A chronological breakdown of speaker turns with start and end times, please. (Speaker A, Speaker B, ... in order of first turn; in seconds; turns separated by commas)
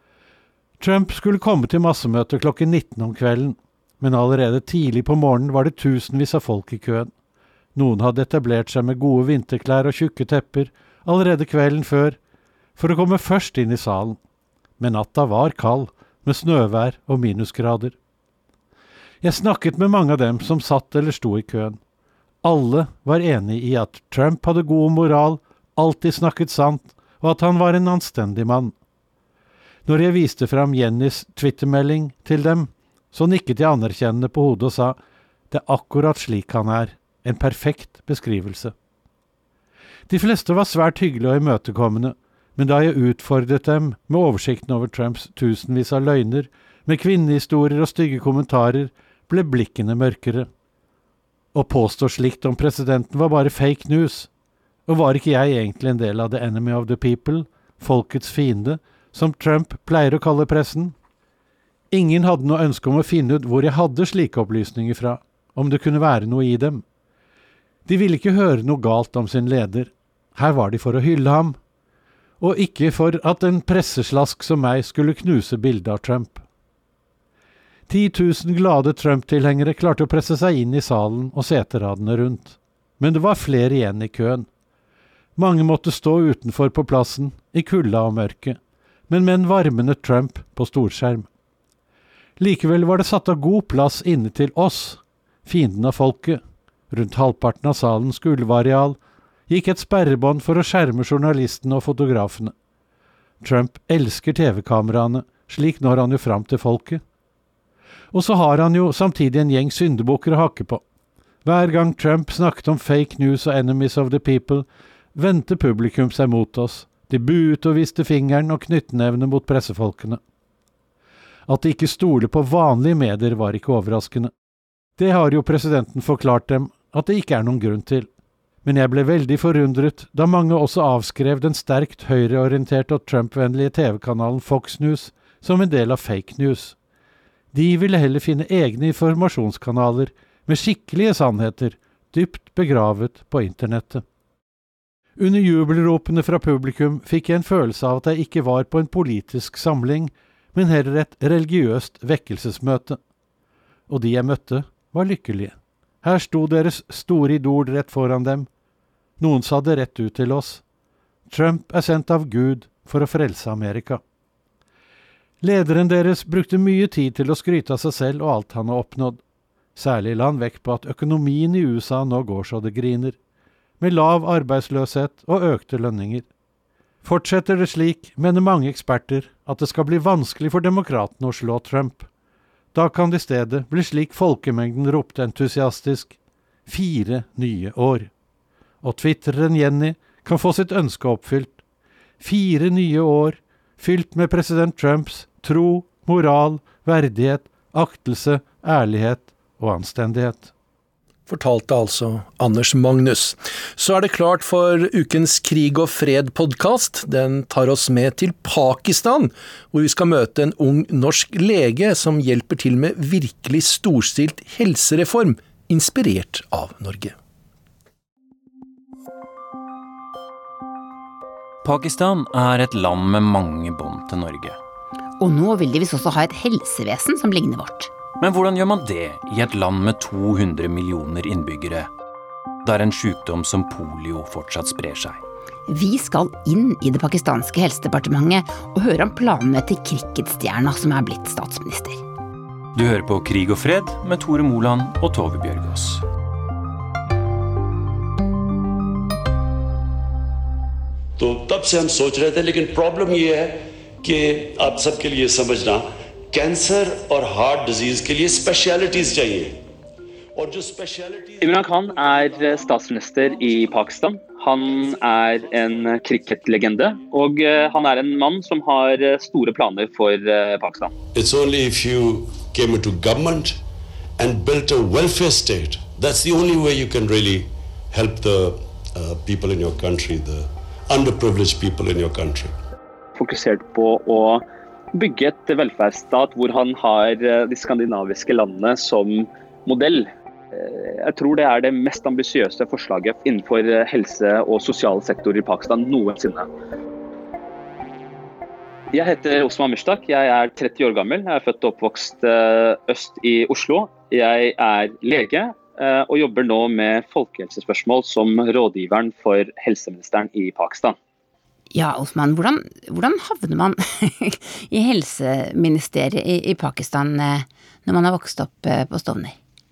Speaker A: 0.8-7.1, Speaker A: 7.8-12.2, Speaker A: 12.8-14.2, Speaker A: 14.8-17.9, Speaker A: 19.2-21.8, Speaker A: 22.4-28.7, Speaker A: 29.9-35.0, Speaker A: 35.5-38.7, Speaker A: 40.1-50.5, Speaker A: 51.5-54.3, Speaker A: 54.9-61.0, Speaker A: 61.9-66.8, Speaker A: 67.9-71.6, Speaker A: 72.4-76.4, Speaker A: 77.9-84.5, Speaker A: 85.4-88.6, Speaker A: 89.1-91.3, Speaker A: 92.4-99.0, Speaker A: 99.5-102.5, Speaker A: 103.4-107.0, Speaker A: 108.1-110.8, Speaker A: 111.5-120.2, Speaker A: 121.5-124.3, Speaker A: 125.0-128.1, Speaker A: 128.6-136.8, Speaker A: 137.5-144.0, Speaker A: 145.2-153.0, Speaker A: 153.9-158.5, Speaker A: 159.2-160.6, Speaker A: 161.3-164.0, Speaker A: 165.4-169.2, Speaker A: 169.8-173.2, Speaker A: 173.8-176.3, Speaker A: 177.0-182.1, Speaker A: 182.7-186.2, Speaker A: 186.7-188.1, Speaker A: 188.8-191.6, Speaker A: 192.2-200.5, Speaker B: 201.3-217.1, Speaker C: 221.6-224.6, Speaker D: 225.2-227.9, Speaker C: 228.2-231.9, Speaker C: 232.7-235.2, Speaker D: 235.7-242.0, Speaker C: 242.8-246.0, Speaker E: 251.2-259.6, Speaker E: 260.4-261.7, Speaker F: 261.4-270.9, Speaker E: 271.1-273.6, Speaker E: 274.2-282.6, Speaker F: 283.2-296.5, Speaker F: 298.9-310.9, Speaker D: 311.7-319.4